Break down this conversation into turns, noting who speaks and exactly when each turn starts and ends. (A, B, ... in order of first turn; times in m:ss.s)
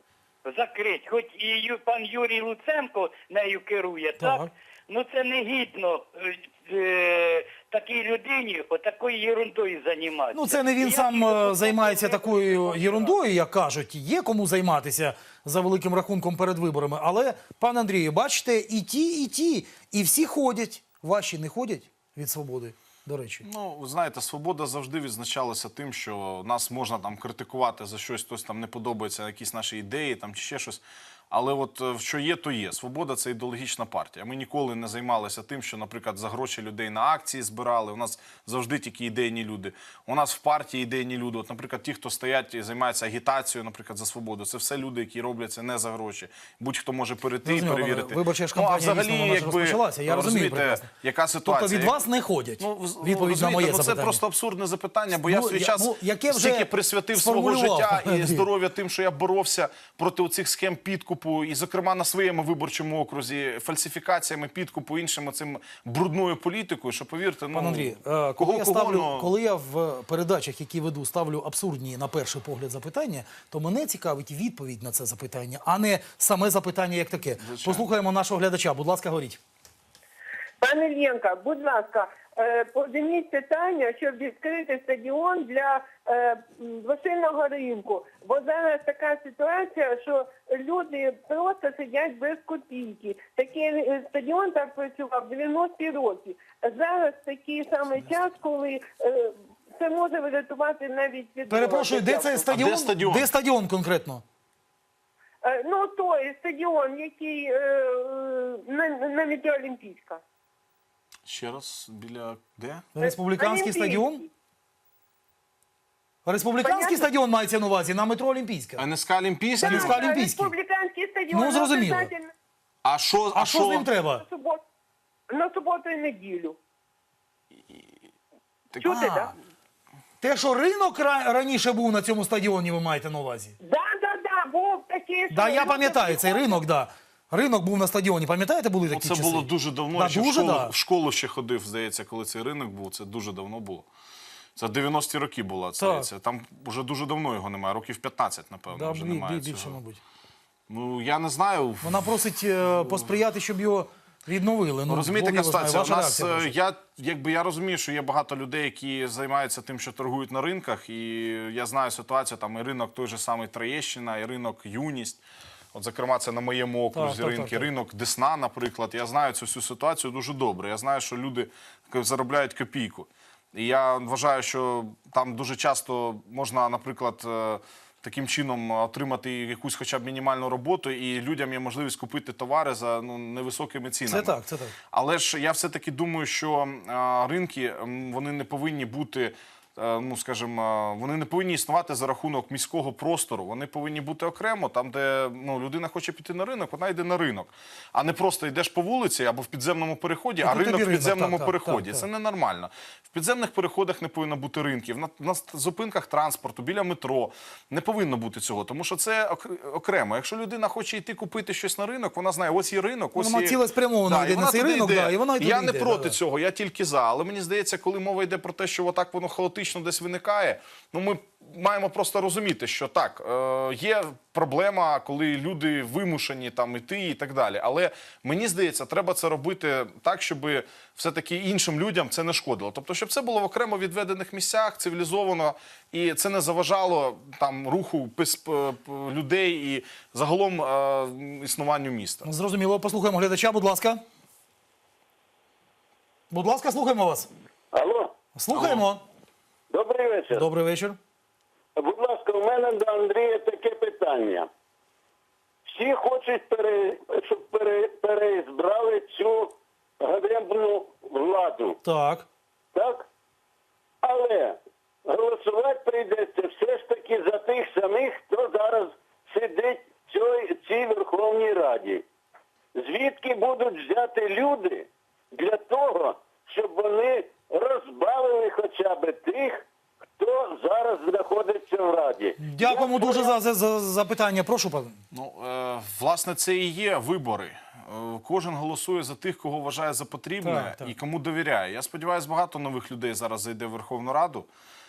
0:00.4-0:13.2 A
0:04.2-0:04.5 B
0:10.3-0:23.5 B
0:23.4-0:52.0 C
0:47.4-0:50.9 B
0:51.4-0:54.2 B
0:52.6-1:09.3 C
0:55.1-0:58.5 B
1:07.5-1:19.4 B
1:17.4-1:17.9 C
1:20.6-1:42.5 D
1:41.5-1:44.2 B
1:42.5-1:43.3 C
1:45.4-1:50.2 D
1:51.3-1:52.9 C
1:53.0-1:54.2 B
1:53.0-1:54.3 D
1:56.3-1:58.8 B
1:56.6-1:57.1 D
1:58.8-2:00.0 C
1:59.6-2:02.3 D
1:59.6-2:00.5 B
2:01.3-2:02.1 B
2:02.8-2:03.9 C
2:03.3-2:04.2 B
2:04.1-2:04.6 D
2:05.3-2:06.6 D
2:08.8-2:09.3 D
2:08.8-2:09.3 B
2:10.2-2:13.6 B
2:13.6-2:16.6 D
2:15.3-2:20.7 B
2:18.9-2:23.9 C
2:24.6-2:29.8 C
2:25.8-2:26.1 B
2:28.7-2:30.0 B
2:30.7-2:32.2 C
2:31.8-2:36.5 B
2:34.9-2:45.2 C
2:45.7-3:04.4 C
2:46.9-2:47.7 B
3:04.1-3:04.8 B
3:04.9-4:02.3 C
3:20.4-3:22.1 B
3:33.2-3:36.2 B
4:02.2-4:04.0 B
4:06.3-4:07.3 B
4:07.7-4:08.1 E
4:08.4-4:09.0 B
4:08.5-4:08.8 C
4:09.7-4:10.4 E
4:10.3-4:11.0 B
4:11.8-4:14.5 E
4:15.7-4:21.8 E
4:21.8-4:22.3 B
4:22.7-4:23.1 E
4:24.0-4:32.0 E
4:32.8-4:39.6 E
4:40.2-4:43.3 E
4:42.4-4:45.0 B
4:45.1-4:54.5 C
4:50.4-4:50.9 B